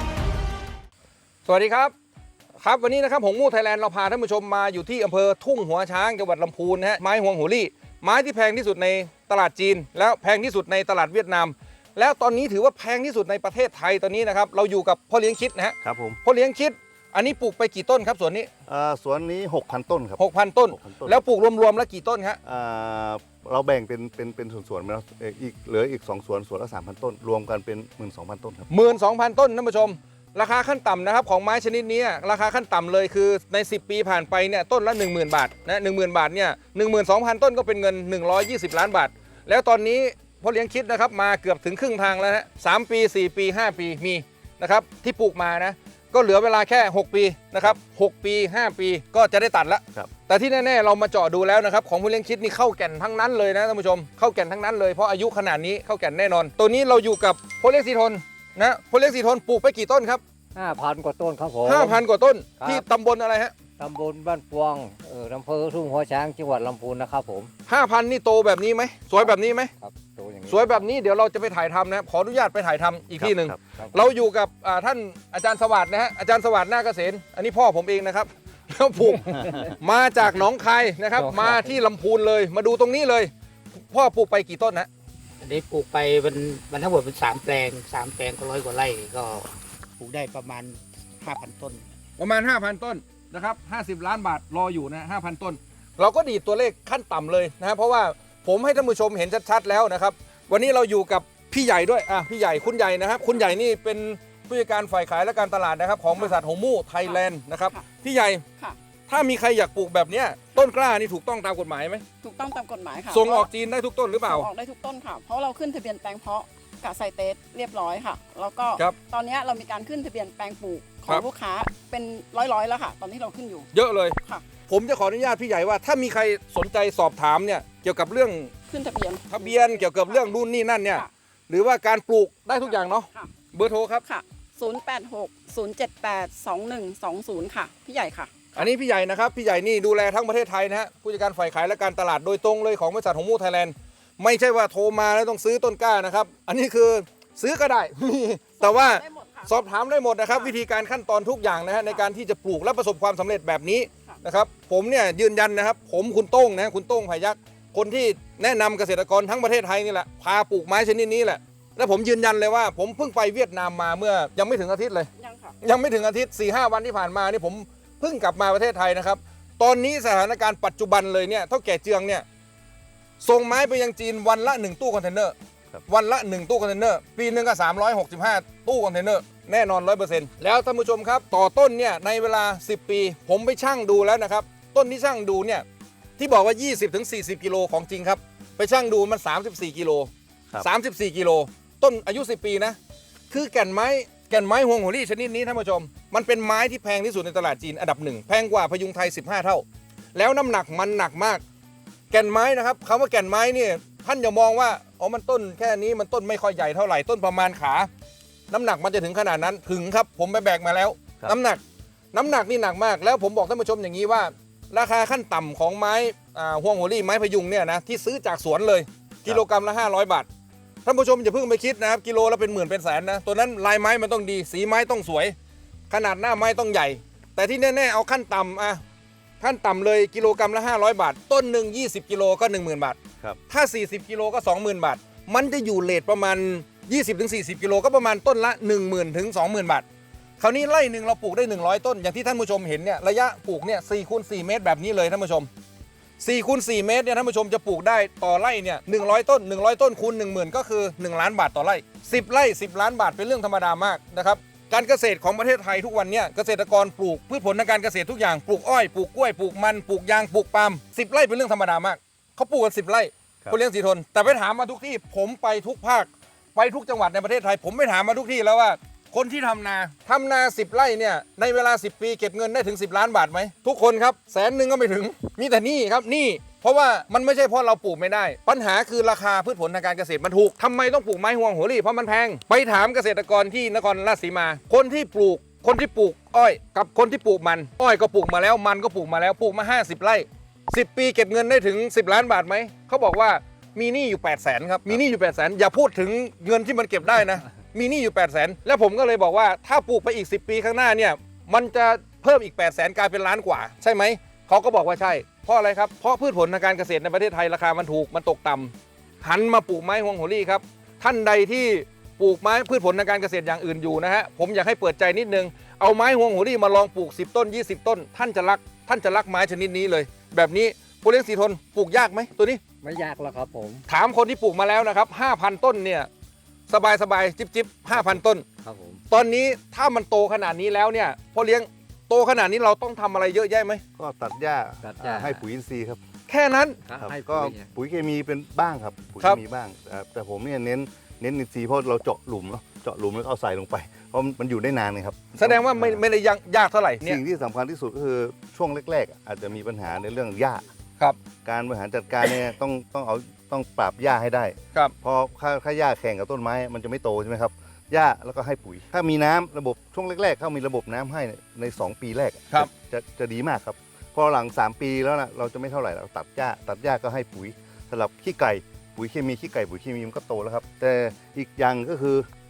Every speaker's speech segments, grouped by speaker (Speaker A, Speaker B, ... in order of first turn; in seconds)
Speaker A: 1.4-1.9, 2.6-18.5, 20.2-22.4, 28.7-60.2, 61.6-63.5, 67.7-69.7, 70.5-84.9, 92.2-108.4, 109.1-112.0, 113.1-114.5, 123.7-124.2, 124.7-128.5, 129.3-134.0, 138.5-165.1, 165.6-172.2, 173.2-175.3, 175.8-185.6, 186.2-192.8, 193.3-201.4, 202.1-207.9, 208.5-211.6, 212.1-220.3, 220.8-225.3, 225.9-228.8, 229.4-233.0, 233.5-239.8, 240.4-245.5, 246.2-322.6, 323.9-326.1, 326.7-328.4, 329.1-333.8, 336.3-336.8, 345.4-347.2
Speaker B: 15.8-16.2, 18.7-21.2, 22.4-28.7, 73.2-73.6, 334.0-336.0, 337.0-346.0, 347.0-350.6, 351.4-372.3
Speaker C: 60.5-62.0, 62.6-62.9, 63.8-67.5, 69.2-70.8, 79.3-79.7, 81.1-81.8, 322.8-323.8, 328.6-329.0, 334.8-335.4, 336.9-337.7
Speaker D: 85.4-91.9
Speaker E: 106.1-106.4, 112.2-113.5, 114.2-123.7, 128.7-130.3, 132.6-133.3, 134.0-138.6, 148.6-149.6, 151.8-152.0, 165.2-165.6